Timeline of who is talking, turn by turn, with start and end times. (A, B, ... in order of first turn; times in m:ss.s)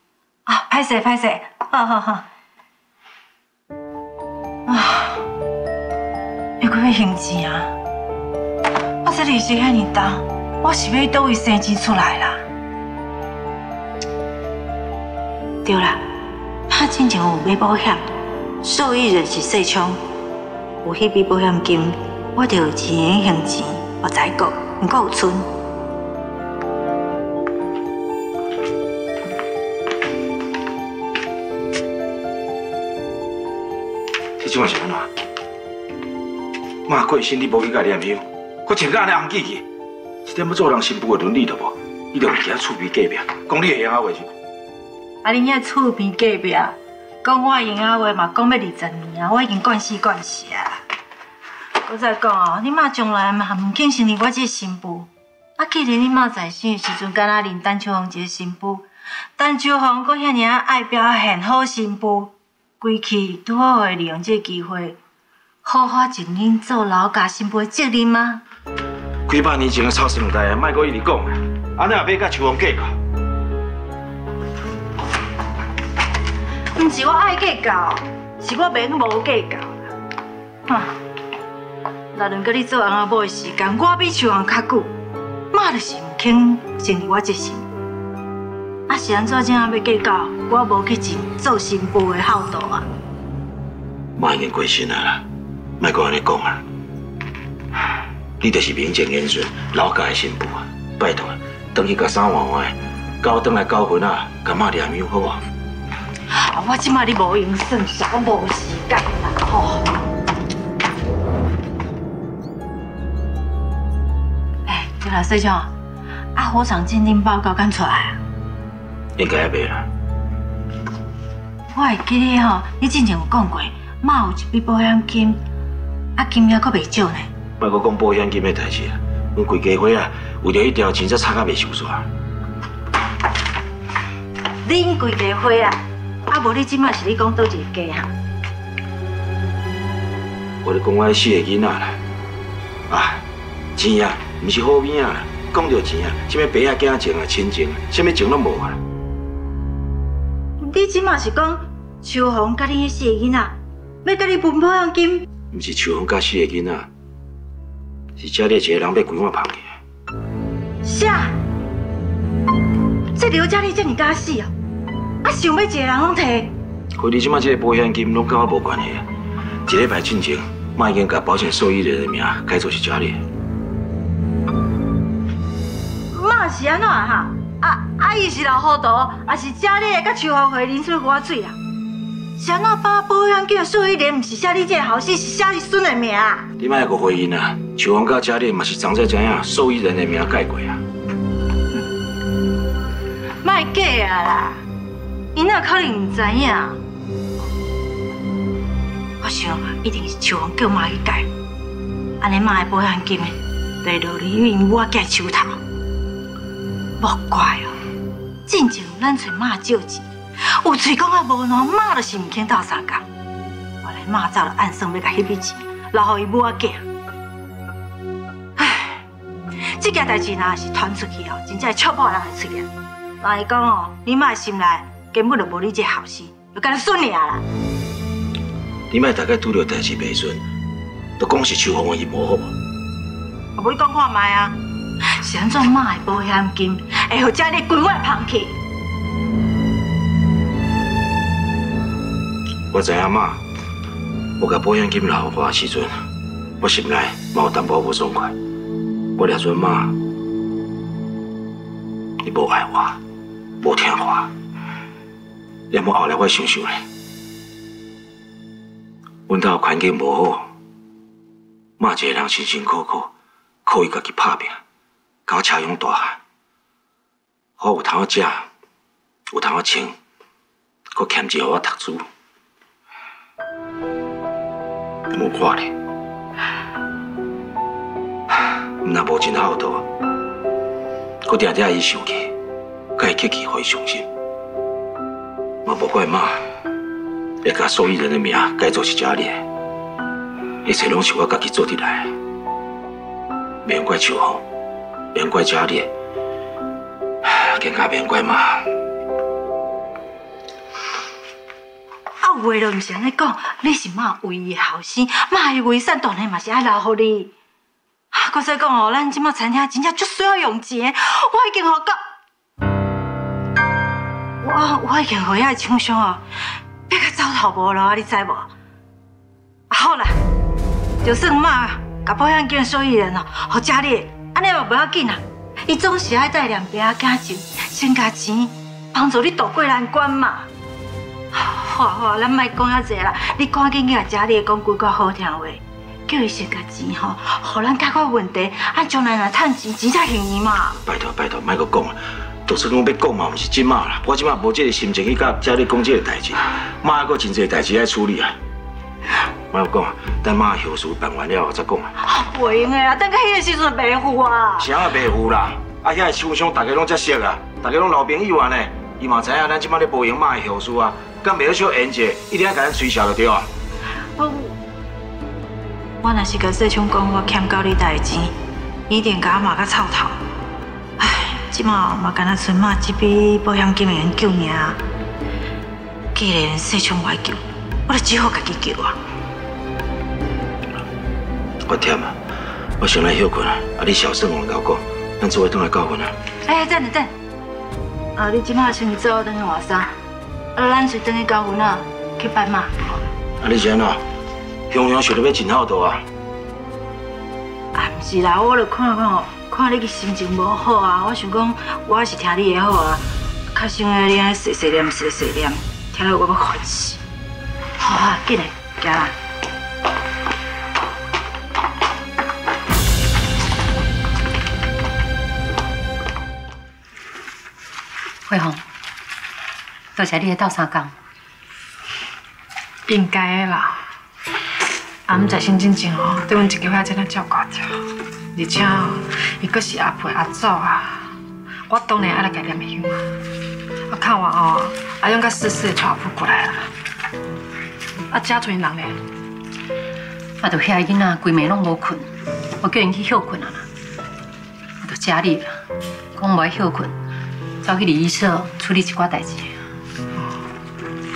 0:00.5-0:02.3 A
0:04.7-0:05.2 A
0:06.6-0:07.7 A
0:09.0-0:12.4 A
0:15.6-0:16.0 A
0:16.7-0:18.1 A
0:18.6-0:20.0 A
0:20.8-0:25.5 A
0:34.4-0:35.1 B
0:36.9-0:39.6 B
0:40.2-0:44.3 B
0:45.2-0:50.8 A
0:51.9-0:58.9 A
0:59.4-1:05.0 A
1:05.6-1:08.4 A
1:09.3-1:13.0 B
1:16.8-1:19.7 A
1:20.7-1:20.9 A
1:22.1-1:24.9 A
1:25.5-1:27.7 A
1:28.9-1:32.9 A
1:34.2-1:35.2 B
1:35.8-1:36.6 B
1:38.4-1:45.4 B
1:46.3-1:50.0 A
1:54.7-1:55.7 A
1:56.4-1:58.2 A
1:59.2-1:59.9 B
2:01.7-2:05.4 A
2:06.2-2:07.3 A
2:07.6-2:12.1 B
2:14.6-2:18.1 A
2:20.6-2:22.0 B
2:22.9-2:23.2 B
2:23.8-2:28.8 B
2:30.6-2:35.3 A
2:35.5-2:36.9 B
2:38.2-2:39.8 B
2:40.8-2:41.4 A
2:43.2-2:44.5 A
2:45.2-2:46.6 A
2:47.0-2:49.1 B
2:49.7-2:53.2 B
2:56.1-3:01.6 A
3:02.4-3:06.5 A
3:06.6-3:10.8 B
3:13.4-3:14.6 A
3:15.3-3:16.8 A
3:19.2-3:21.3 A
3:22.2-3:25.6 A
3:27.0-3:27.8 A
3:28.5-3:33.1 A
3:33.8-3:36.9 A
3:38.6-3:39.0 A
3:39.7-3:47.4 A
3:48.9-3:50.4 B
3:51.2-3:52.5 B
3:53.6-3:54.6 A
3:55.1-3:58.6 A
4:02.7-4:03.4 B
4:04.4-4:05.9 B
4:06.6-4:08.4 B
4:09.2-4:10.0 B
4:12.2-4:13.0 B
4:13.6-4:14.3 B
4:15.7-4:16.8 B
4:19.3-4:20.5 B
4:21.8-4:23.1 B
4:23.7-4:24.6 B
4:25.3-4:26.2 B
4:27.6-4:28.5 B
4:29.3-4:30.0 B
4:30.9-4:32.0 B
4:35.1-4:35.7 B
4:38.8-4:39.9 B
4:41.3-4:42.3 B
4:43.0-4:44.1 B
4:45.7-4:46.5 B
4:47.4-4:49.4 B
4:50.6-4:52.1 B
4:53.6-4:54.4 B
4:55.1-4:55.9 B
4:57.2-4:58.7 B
5:02.2-5:07.3 A
5:08.1-5:12.0 A
5:14.4-5:16.2 A
5:16.9-5:18.5 A
5:19.7-5:20.2 A
5:21.0-5:30.5 A
5:31.3-5:40.8 A
5:40.8-5:48.4 B
5:49.5-5:51.9 B
5:52.0-5:54.7 A
5:54.6-6:03.5 B
6:04.2-6:04.6 A
6:06.0-6:08.4 A
6:08.9-6:10.2 A
6:11.0-6:14.8 A
6:16.1-6:19.0 A
6:21.6-6:22.2 B
6:22.8-6:26.2 B
6:26.4-6:27.1 A
6:28.2-6:29.9 A
6:30.6-6:33.0 A
6:33.4-6:34.0 B
6:34.7-6:36.0 B
6:37.8-6:47.0 A
6:47.8-6:49.2 A
6:58.3-6:58.6 C
7:00.0-7:00.9 C
7:02.9-7:03.8 D
7:05.1-7:07.8 D
7:08.4-7:11.1 D
7:11.7-7:13.0 D
7:13.9-7:16.7 D
7:18.1-7:19.0 D
7:20.4-7:22.0 C
7:22.6-7:23.7 C
7:24.8-7:25.6 C
7:26.2-7:27.0 C
7:27.6-7:29.6 C